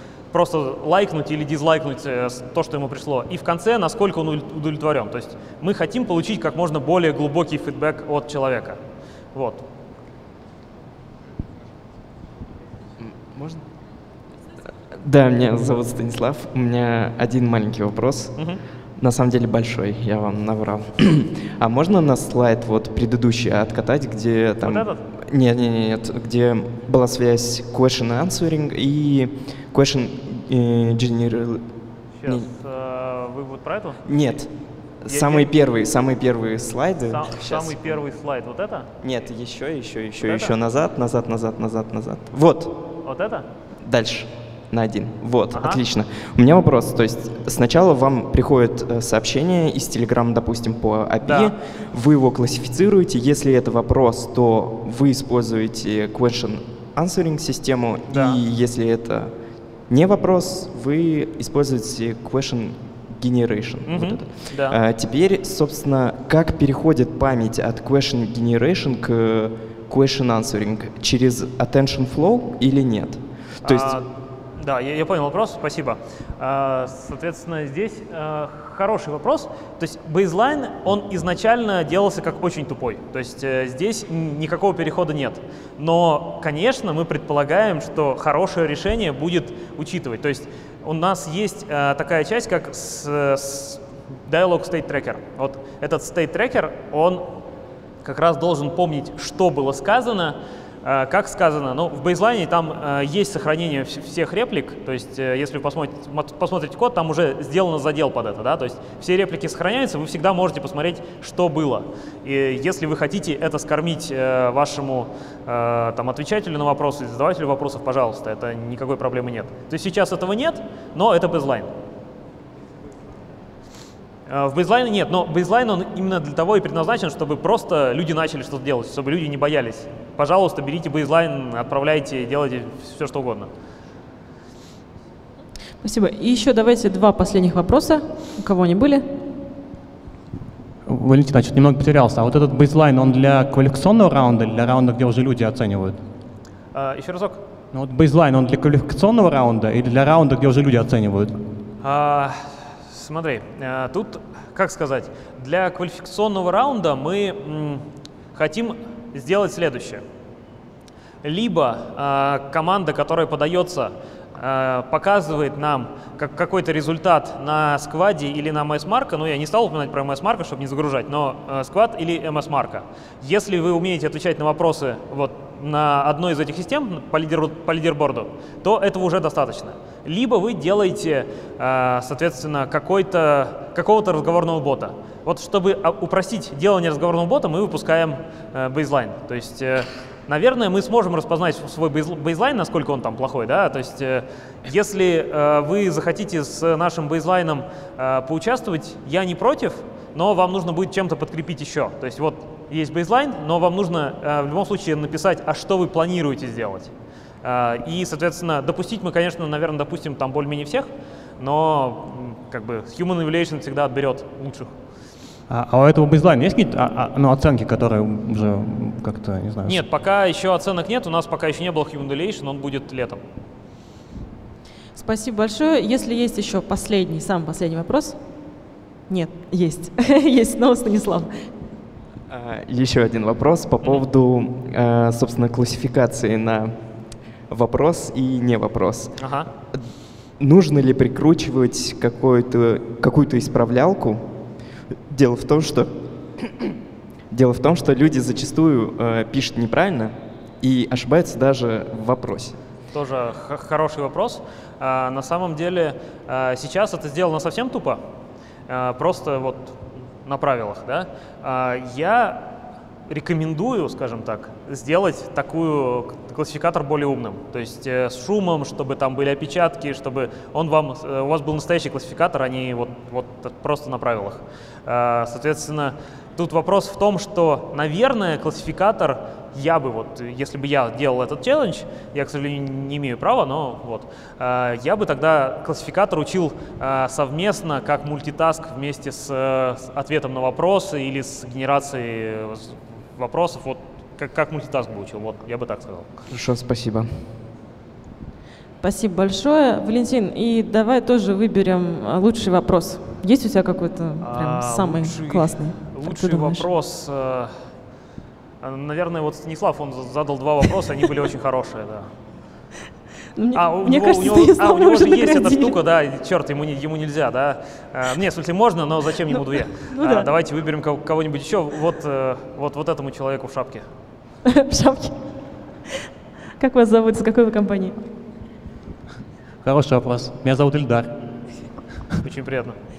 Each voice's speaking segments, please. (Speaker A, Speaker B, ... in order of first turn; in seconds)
Speaker A: 0.3-8.8, 9.3-9.6, 24.6-25.0, 32.2-34.0, 35.1-35.5, 37.1-38.9, 40.2-40.5, 43.0-43.5, 45.5-45.8, 51.2-51.5, 58.1-58.4, 63.9-64.8, 73.6-97.3, 98.0-121.7, 124.3-133.5, 146.7-147.4, 151.8-160.0, 161.2-206.9, 207.4-210.9, 211.4-214.7, 219.7-223.2, 239.2-239.5, 252.9-258.0, 258.7-262.5, 263.1-296.1, 304.2-307.6, 308.6-312.1, 313.5-323.9, 332.2-332.8
Speaker B: 13.0-13.6, 14.9-18.4, 19.0-31.6, 34.0-34.5, 35.0-38.0, 39.0-42.8, 43.8-59.3, 59.9-74.0, 232.3-236.8, 237.5-239.2, 239.7-244.2, 245.1-246.7, 247.3-252.6, 296.3-297.2
Speaker C: 135.8-139.1, 224.9-231.5, 298.8-306.6, 313.3-315.8, 320.0-320.3, 324.5-325.2, 326.6-327.9
Speaker D: 140.8-146.0, 147.7-151.3, 215.5-219.8, 329.6-331.1